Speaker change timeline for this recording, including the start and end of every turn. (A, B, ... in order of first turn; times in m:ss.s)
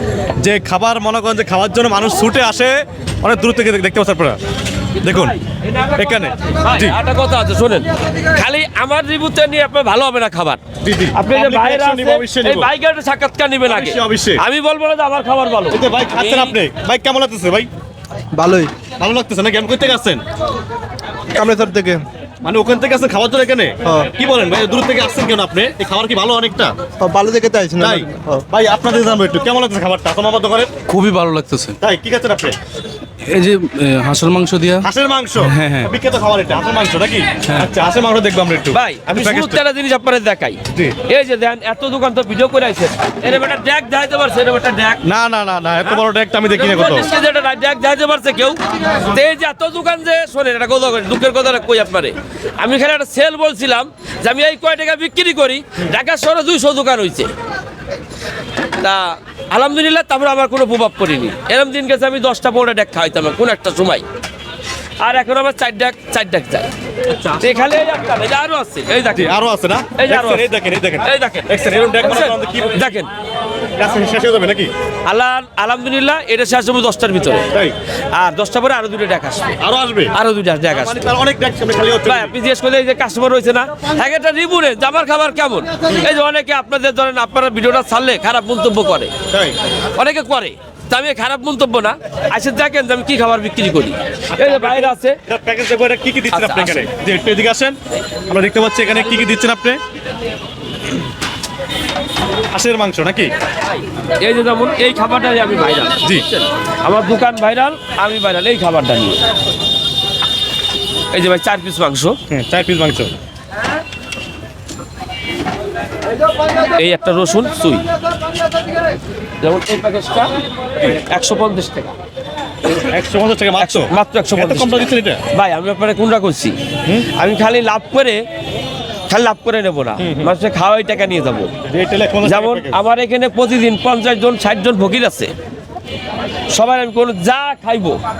0:00.4-0:04.4 A
0:05.0-0:05.4 A
0:05.7-0:06.0 B
0:05.9-0:07.0 A
0:06.6-0:10.6 B
0:10.8-0:12.7 A
0:11.2-0:16.5 B
0:13.7-0:14.4 A
0:15.7-0:17.7 A
0:18.3-0:18.7 C
0:19.0-0:20.2 A
0:21.3-0:22.0 C
0:22.4-0:26.7 A
0:27.0-0:28.4 C
0:27.8-0:30.7 A
0:30.9-0:31.8 D
0:31.8-0:32.6 A
0:33.2-0:34.9 D
0:34.8-0:39.6 A
0:35.4-0:35.9 D
0:38.7-0:45.0 B
0:45.0-0:47.1 A
0:46.6-0:57.3 B
0:58.8-1:04.0 B
1:05.0-1:09.3 B
1:09.1-1:12.9 A
1:10.0-1:10.5 B
1:11.0-1:13.1 B
1:13.8-1:14.7 A
1:15.0-1:17.5 B
1:18.1-1:19.6 B
1:19.6-1:20.1 A
1:20.1-1:21.0 B
1:20.7-1:22.3 A
1:22.1-1:29.1 B
1:29.3-1:29.6 A
1:29.9-1:35.2 B
1:34.3-1:37.8 A
1:36.3-1:36.9 B
1:38.3-1:39.8 A
1:42.5-1:43.3 A
1:44.2-1:49.2 B
1:51.1-1:52.2 B
1:52.3-1:53.1 A
1:56.8-1:57.8 B
1:59.4-2:00.3 B
2:00.9-2:01.9 B
2:02.8-2:05.2 A
2:03.6-2:06.6 B
2:07.1-2:08.2 B
2:09.1-2:11.5 B
2:10.0-2:10.3 A
2:11.7-2:12.8 A
2:12.2-2:15.3 B
2:16.5-2:18.0 B